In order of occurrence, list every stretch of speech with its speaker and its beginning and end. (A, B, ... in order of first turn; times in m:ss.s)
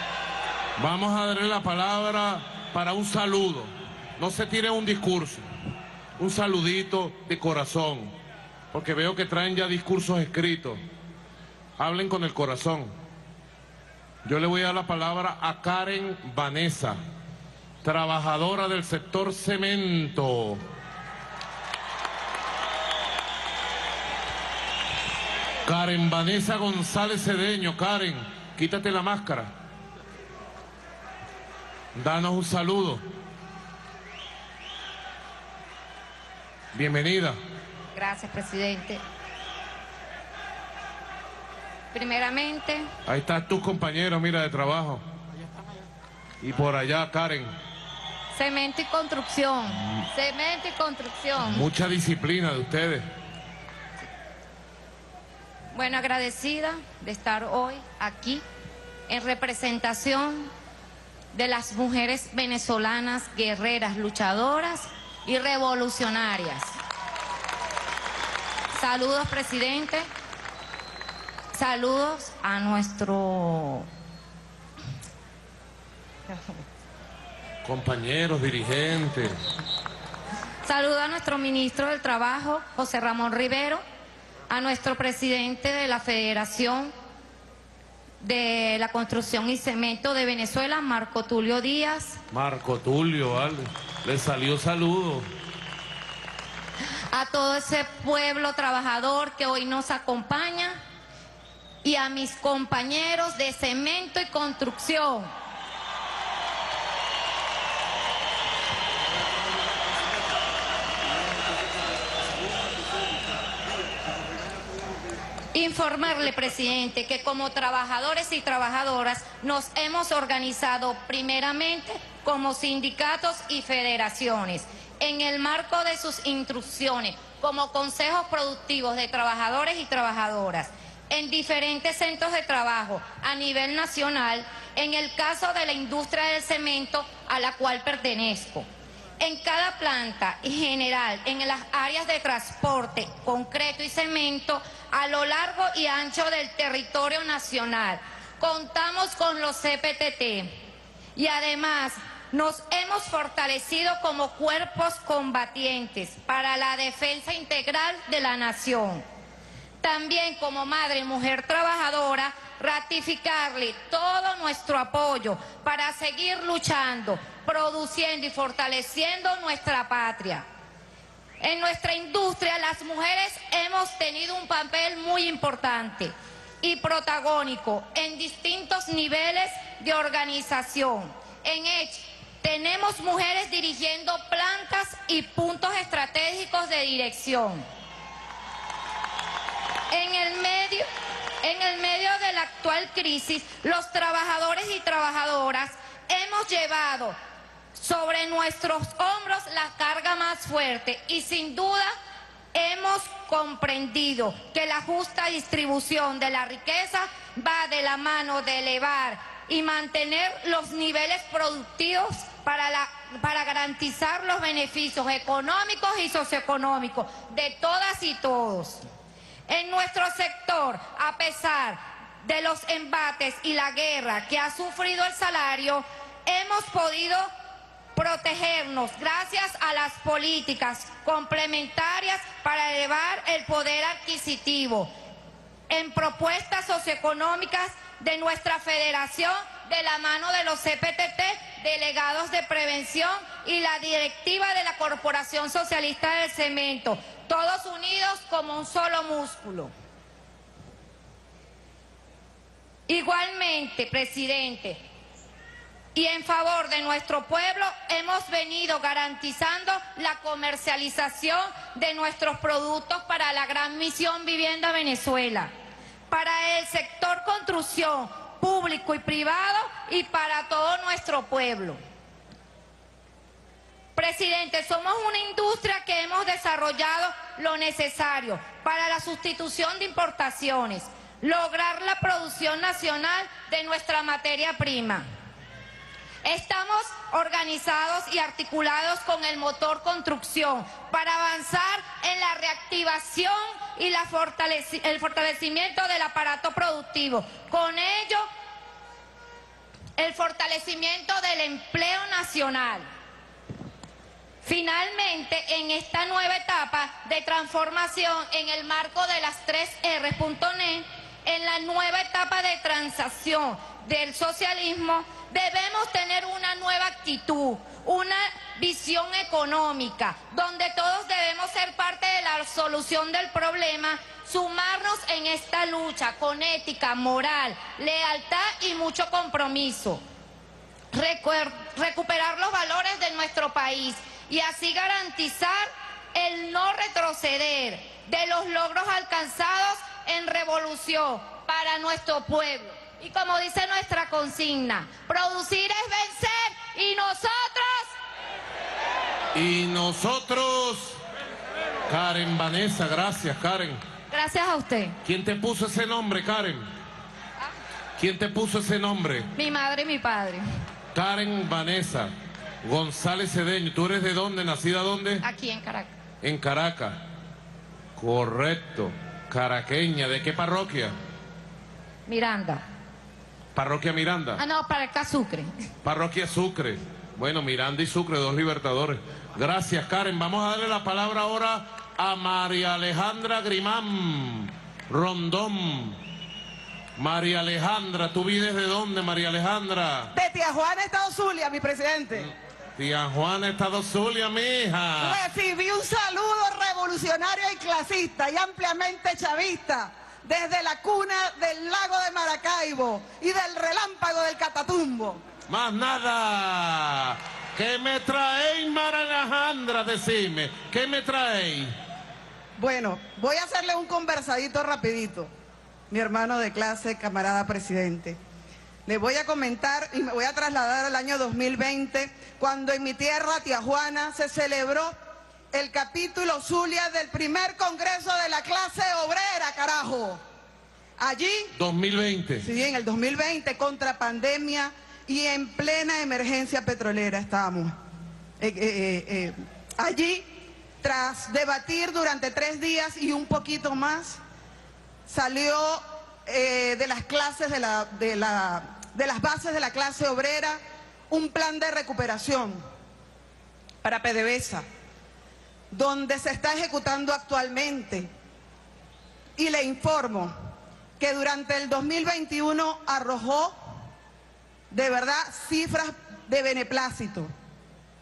0:00.8-0:05.4 A
0:06.2-0:08.2 A
0:08.7-0:10.8 A
0:11.8-0:12.9 A
0:14.2-0:17.0 A
0:17.8-0:20.6 A
0:25.6-0:29.5 A
0:32.0-0:33.0 A
0:36.7-0:37.4 A
0:37.9-0:39.0 B
0:41.9-0:42.9 B
0:43.1-0:45.0 A
0:46.4-0:47.5 A
0:48.3-0:51.6 B
0:51.4-0:53.1 A
0:55.7-0:58.4 B
0:59.1-1:00.5 B
1:01.3-1:06.8 B
1:08.7-1:10.1 B
1:11.5-1:13.9 B
1:17.6-1:19.4 A
1:20.6-1:23.8 B
1:24.5-1:26.9 B
1:28.2-1:32.2 B
1:32.3-1:35.3 A
1:37.1-1:40.8 B
1:41.8-1:45.3 B
1:55.5-2:18.7 B
2:19.2-2:30.6 B
2:31.2-2:39.0 B
2:39.8-2:50.4 B
2:51.4-3:07.6 B
3:09.9-3:10.9 B
3:11.4-3:17.2 B
3:17.8-3:21.9 B
3:22.5-3:38.8 B
3:39.5-3:47.3 B
3:48.0-3:54.9 B
3:55.7-4:09.7 B
4:12.9-4:14.8 B
4:15.9-4:25.5 B
4:26.1-4:31.8 B
4:34.0-4:45.1 B
4:46.2-4:58.3 B
5:00.0-5:02.9 B
5:04.4-5:30.0 B
5:30.9-5:47.9 B
5:49.3-5:51.0 A
5:51.9-5:53.8 A
5:54.1-5:55.0 B
5:55.0-5:56.7 A
5:58.0-5:59.3 A
5:59.4-6:00.4 B
6:00.9-6:02.1 A
6:02.6-6:05.2 A
6:05.2-6:05.9 B
6:06.2-6:07.0 A
6:08.0-6:11.0 A
6:12.1-6:12.6 B
6:13.6-6:14.4 A
6:14.4-6:15.5 B
6:15.8-6:26.0 A
6:27.0-6:30.1 A
6:30.1-6:32.3 C
6:32.8-6:35.2 A
6:35.0-6:45.2 C
6:45.5-6:51.8 A
6:52.6-6:55.3 C
6:55.9-6:58.2 C
6:58.9-7:05.0 C
7:05.5-7:10.2 C
7:11.0-7:11.5 C
7:11.5-7:12.5 A
7:12.4-7:17.8 C
7:18.4-7:20.3 C
7:20.8-7:24.2 C
7:25.1-7:32.6 C
7:33.8-7:34.6 C
7:35.7-7:38.1 C
7:39.4-7:40.3 C
7:41.0-7:43.6 C
7:44.7-7:47.3 C